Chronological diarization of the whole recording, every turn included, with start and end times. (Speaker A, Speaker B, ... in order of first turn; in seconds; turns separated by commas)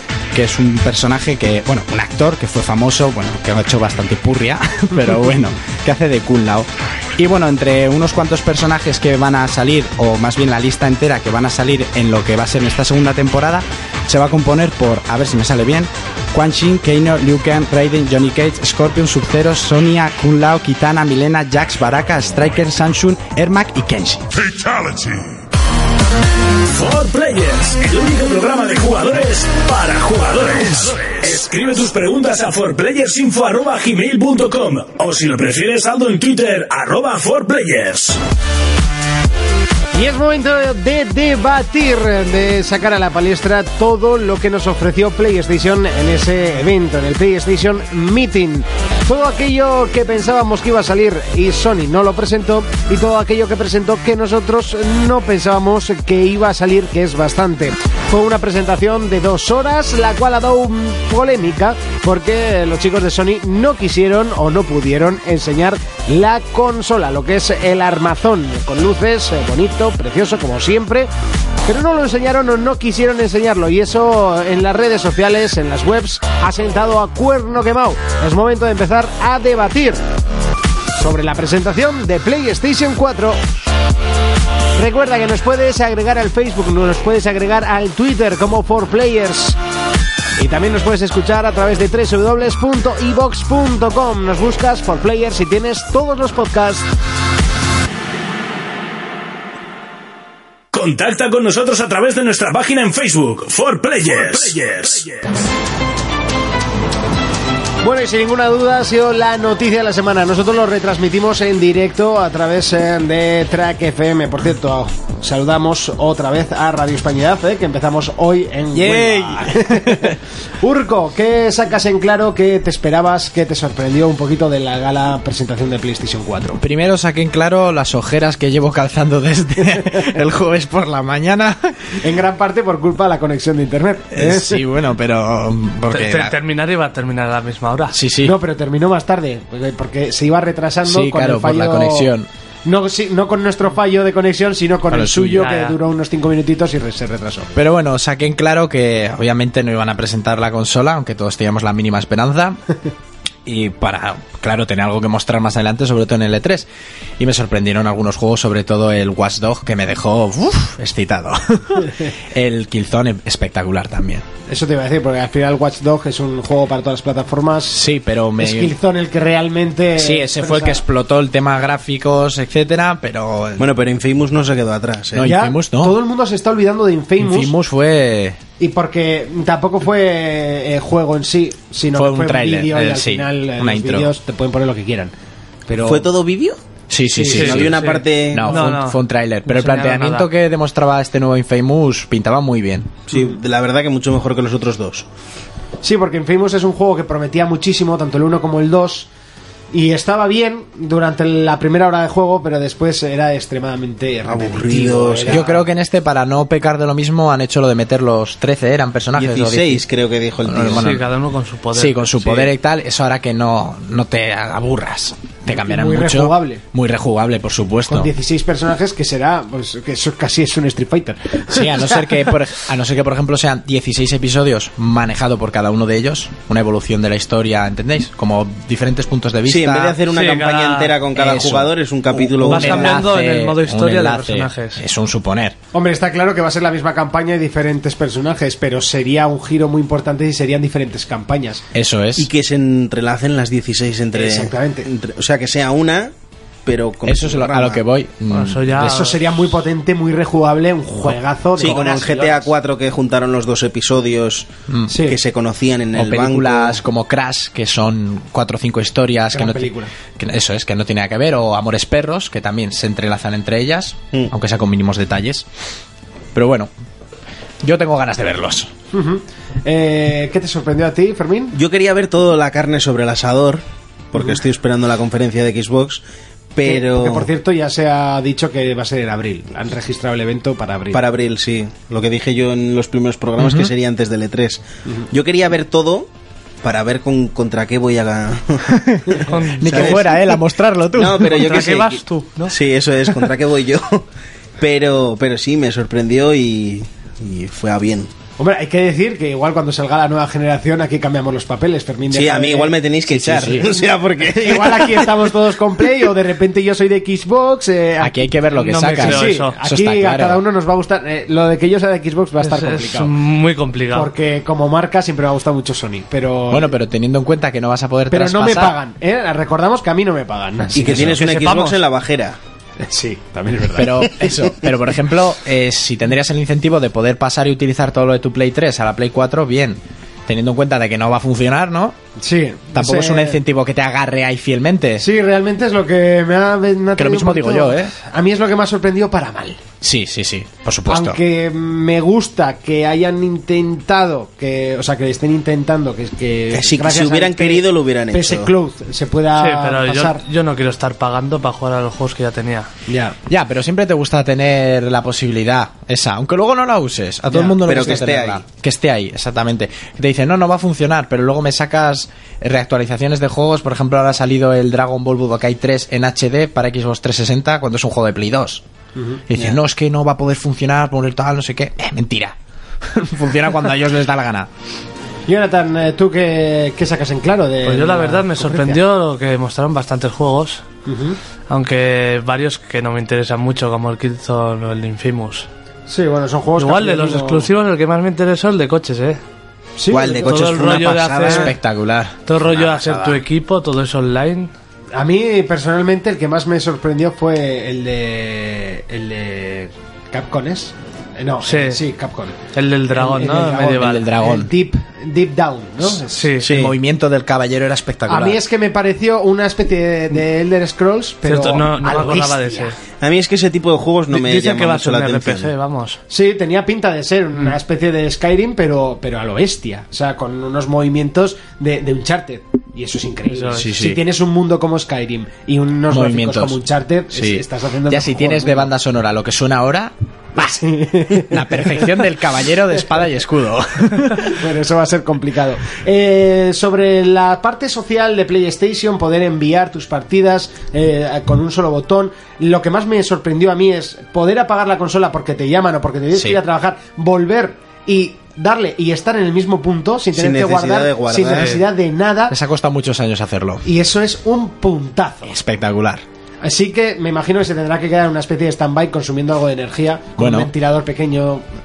Speaker A: 0.3-24.3, Speaker B: 24.5-25.2, Speaker B: 26.6-38.2, Speaker C: 39.9-71.1, Speaker C: 71.6-80.0, Speaker C: 81.0-83.4, Speaker C: 84.8-89.6, Speaker C: 90.4-96.9, Speaker B: 100.7-105.2, Speaker C: 107.8-126.6, Speaker A: 118.7-120.2, Speaker A: 126.6-131.9, Speaker C: 132.0-134.6, Speaker A: 134.1-136.3, Speaker D: 135.9-138.0, Speaker A: 137.9-138.3, Speaker C: 138.2-142.1, Speaker A: 140.8-142.3, Speaker C: 142.6-147.5, Speaker A: 144.9-145.5, Speaker D: 145.4-145.8, Speaker A: 147.5-152.6, Speaker A: 153.4-156.7, Speaker A: 157.2-164.2, Speaker C: 164.5-167.8, Speaker A: 167.7-168.7, Speaker C: 168.4-170.8, Speaker A: 170.0-173.7, Speaker E: 173.6-175.3, Speaker A: 175.1-176.0, Speaker C: 175.2-177.5, Speaker A: 177.2-178.4, Speaker C: 178.6-185.1, Speaker A: 181.9-184.1, Speaker C: 185.7-186.1, Speaker E: 185.8-186.6, Speaker A: 186.9-192.9, Speaker C: 187.1-187.6, Speaker E: 187.3-188.7, Speaker D: 187.4-190.3, Speaker E: 193.1-195.1, Speaker C: 195.8-199.1, Speaker C: 199.7-205.6, Speaker E: 204.2-205.5, Speaker A: 205.3-209.8, Speaker E: 209.2-210.9, Speaker A: 210.4-211.0, Speaker D: 210.7-212.5, Speaker A: 211.7-218.1, Speaker C: 215.5-216.6, Speaker C: 217.9-222.1, Speaker A: 221.5-230.0, Speaker E: 229.4-233.0, Speaker D: 230.0-231.1, Speaker A: 231.1-235.6, Speaker D: 232.4-234.8, Speaker C: 235.7-241.6, Speaker A: 241.7-242.3, Speaker E: 242.2-246.1, Speaker C: 244.1-244.9, Speaker E: 246.7-247.8, Speaker A: 247.1-249.1, Speaker D: 248.3-249.2, Speaker C: 248.8-252.5, Speaker E: 251.6-256.8, Speaker A: 254.7-254.9, Speaker C: 254.9-255.2, Speaker A: 255.9-265.4, Speaker C: 259.3-259.9, Speaker A: 266.3-266.7, Speaker A: 267.6-268.7, Speaker C: 268.9-271.6, Speaker E: 271.5-276.0, Speaker E: 276.5-277.3, Speaker C: 276.6-281.0, Speaker E: 280.9-286.1, Speaker A: 283.4-283.7, Speaker E: 286.6-290.1, Speaker A: 288.7-291.6, Speaker D: 289.3-290.1, Speaker E: 290.9-294.0, Speaker D: 291.3-292.6, Speaker E: 294.6-298.1, Speaker C: 298.4-302.8, Speaker E: 302.1-305.3, Speaker A: 303.1-303.7, Speaker C: 303.5-308.3, Speaker A: 308.0-310.4, Speaker D: 308.5-309.6, Speaker C: 308.9-313.2, Speaker D: 312.4-314.1, Speaker C: 313.9-316.7, Speaker A: 316.5-318.8, Speaker C: 318.1-321.2, Speaker E: 320.7-322.4, Speaker D: 321.1-321.8, Speaker C: 322.8-323.9, Speaker A: 323.7-331.9, Speaker C: 332.2-333.4, Speaker A: 332.7-335.1, Speaker C: 335.0-339.6, Speaker A: 336.9-337.9, Speaker A: 339.8-341.2, Speaker C: 340.9-350.2, Speaker E: 346.5-348.5, Speaker D: 349.3-352.7, Speaker C: 352.9-353.1, Speaker A: 353.3-368.6, Speaker C: 357.3-357.8, Speaker E: 357.6-358.4, Speaker C: 368.9-369.2, Speaker A: 369.3-374.5, Speaker C: 375.3-378.8, Speaker D: 377.6-380.6, Speaker C: 380.9-381.2, Speaker D: 381.5-385.5, Speaker C: 385.9-387.5, Speaker D: 386.6-389.2, Speaker C: 389.8-390.4, Speaker E: 389.9-391.5, Speaker D: 390.2-391.5, Speaker A: 391.3-392.2, Speaker D: 392.3-394.5, Speaker C: 394.9-402.4, Speaker D: 401.4-401.8, Speaker D: 402.5-404.1, Speaker C: 402.9-406.3, Speaker A: 403.8-404.5, Speaker D: 406.0-406.6, Speaker E: 406.4-406.7, Speaker A: 406.4-408.4, Speaker C: 408.1-412.7, Speaker D: 411.2-412.8, Speaker E: 413.0-415.5, Speaker D: 414.1-416.0, Speaker C: 416.1-428.7, Speaker D: 423.3-423.7, Speaker A: 423.5-424.0, Speaker A: 425.9-426.6, Speaker A: 427.1-434.4, Speaker C: 430.4-431.8, Speaker C: 434.2-452.4, Speaker A: 446.1-446.4, Speaker E: 450.1-451.6, Speaker D: 451.3-451.6, Speaker A: 452.3-453.6, Speaker C: 453.6-455.3, Speaker A: 455.2-456.0, Speaker C: 456.4-461.4, Speaker A: 460.2-460.5